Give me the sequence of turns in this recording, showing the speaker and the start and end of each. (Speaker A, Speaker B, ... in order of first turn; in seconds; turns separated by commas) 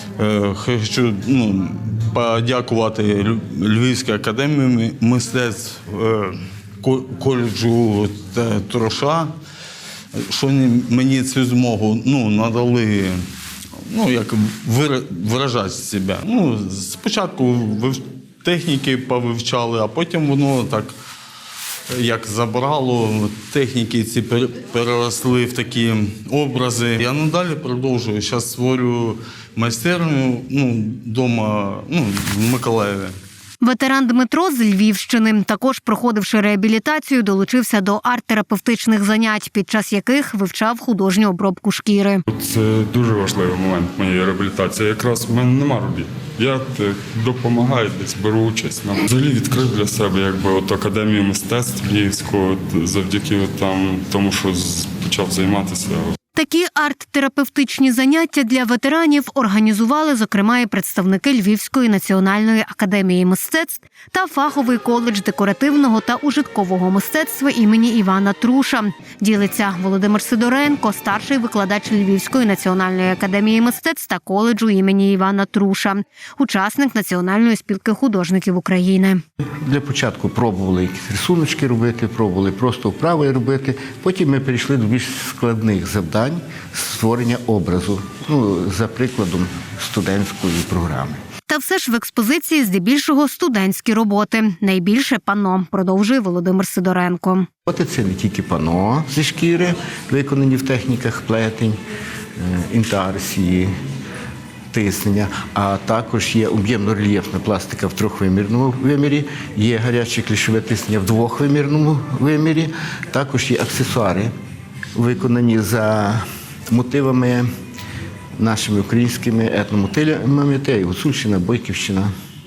Speaker A: 0.2-9.3, Speaker A: 10.1-13.2, Speaker A: 13.8-20.9, Speaker A: 21.9-33.1, Speaker B: 33.6-42.2, Speaker C: 42.3-56.1, Speaker B: 56.3-79.2, Speaker D: 79.6-91.2, Speaker B: 91.5-97.5, Speaker D: 97.7-101.8, Speaker D: 102.4-103.7, Speaker D: 104.7-114.3, Speaker D: 115.0-117.5, Speaker D: 118.4-122.1